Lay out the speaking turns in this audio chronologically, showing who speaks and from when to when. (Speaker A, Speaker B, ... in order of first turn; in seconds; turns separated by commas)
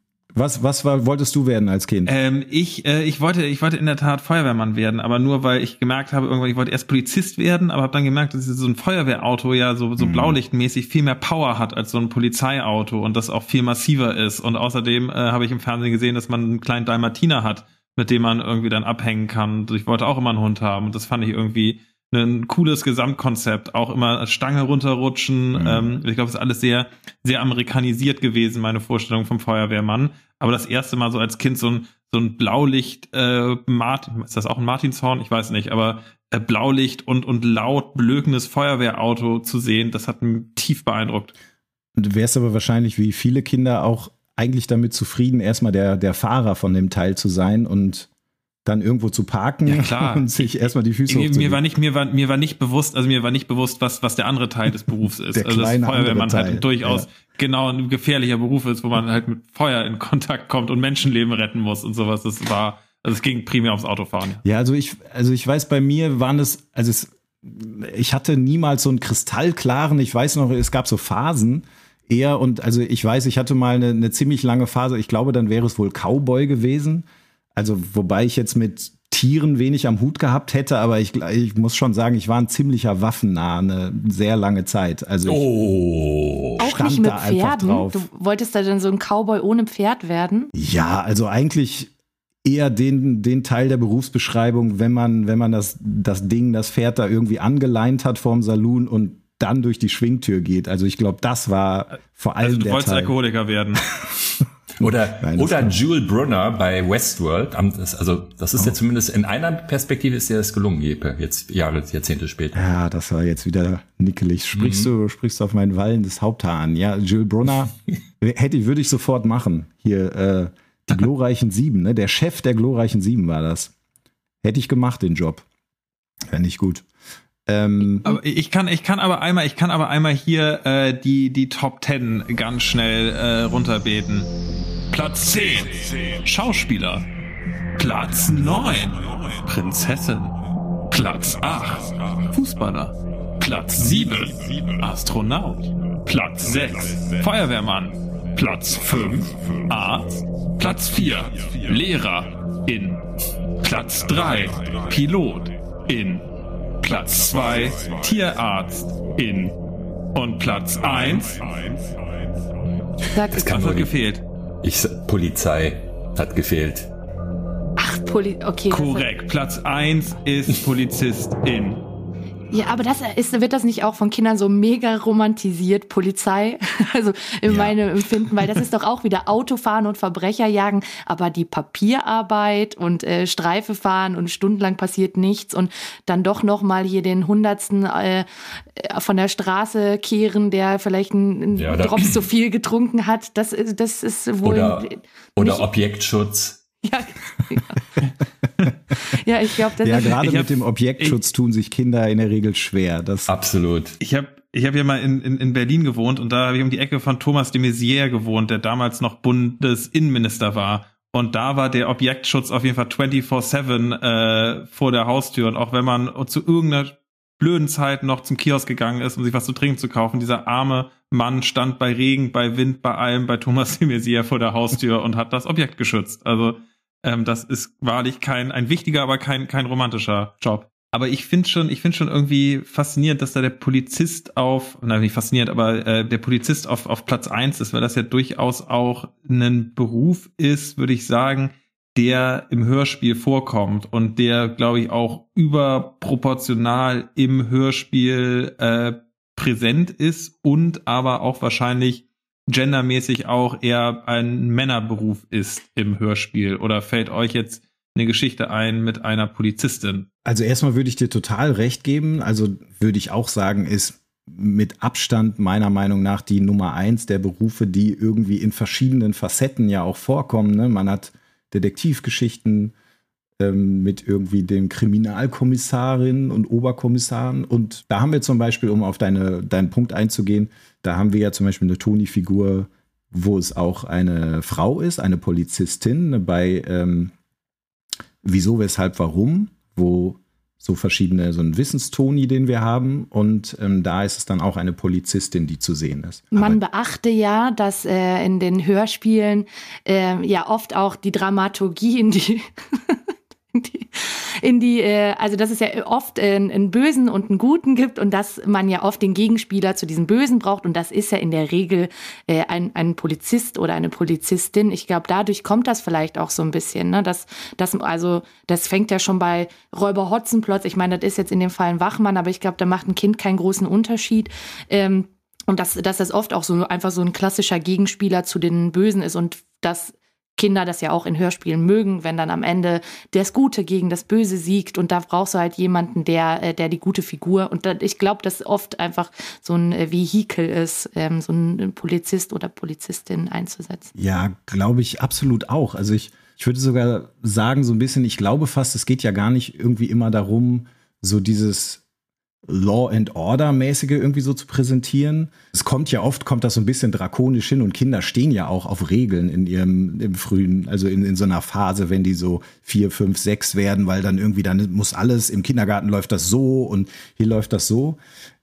Speaker A: 0.3-2.1, Speaker B: 2.0-41.3, Speaker A: 10.0-10.4, Speaker A: 25.5-25.9, Speaker A: 42.0-48.1, Speaker A: 48.6-51.6, Speaker B: 49.6-64.4, Speaker A: 55.3-57.1, Speaker A: 64.4-85.4, Speaker C: 85.2-86.6, Speaker D: 86.6-90.5, Speaker A: 86.6-88.0, Speaker A: 90.5-91.9, Speaker A: 92.4-103.1, Speaker B: 102.4-103.8, Speaker C: 104.8-112.6, Speaker A: 104.8-105.7, Speaker A: 112.5-123.7, Speaker C: 114.5-114.9, Speaker A: 124.4-125.4, Speaker A: 126.3-126.8, Speaker A: 127.5-128.1, Speaker B: 128.0-134.3, Speaker B: 134.9-137.1, Speaker B: 137.8-140.3, Speaker B: 140.9-153.0, Speaker B: 153.6-156.2, Speaker B: 156.8-159.5, Speaker B: 160.1-161.4, Speaker D: 163.1-163.4, Speaker C: 163.3-163.9, Speaker B: 163.3-164.2, Speaker C: 164.6-166.9, Speaker D: 167.8-169.1, Speaker B: 168.7-171.8, Speaker D: 172.5-188.2, Speaker D: 188.8-195.6, Speaker C: 191.5-192.2, Speaker C: 194.4-196.6, Speaker D: 196.8-197.8, Speaker D: 199.1-200.1, Speaker A: 199.8-203.3, Speaker B: 200.2-201.2, Speaker C: 203.3-203.9, Speaker B: 204.0-260.1, Speaker A: 260.2-272.7, Speaker A: 273.4-287.1, Speaker A: 288.2-296.6, Speaker D: 296.3-303.0, Speaker D: 303.5-343.9, Speaker A: 343.9-351.8, Speaker A: 352.5-368.0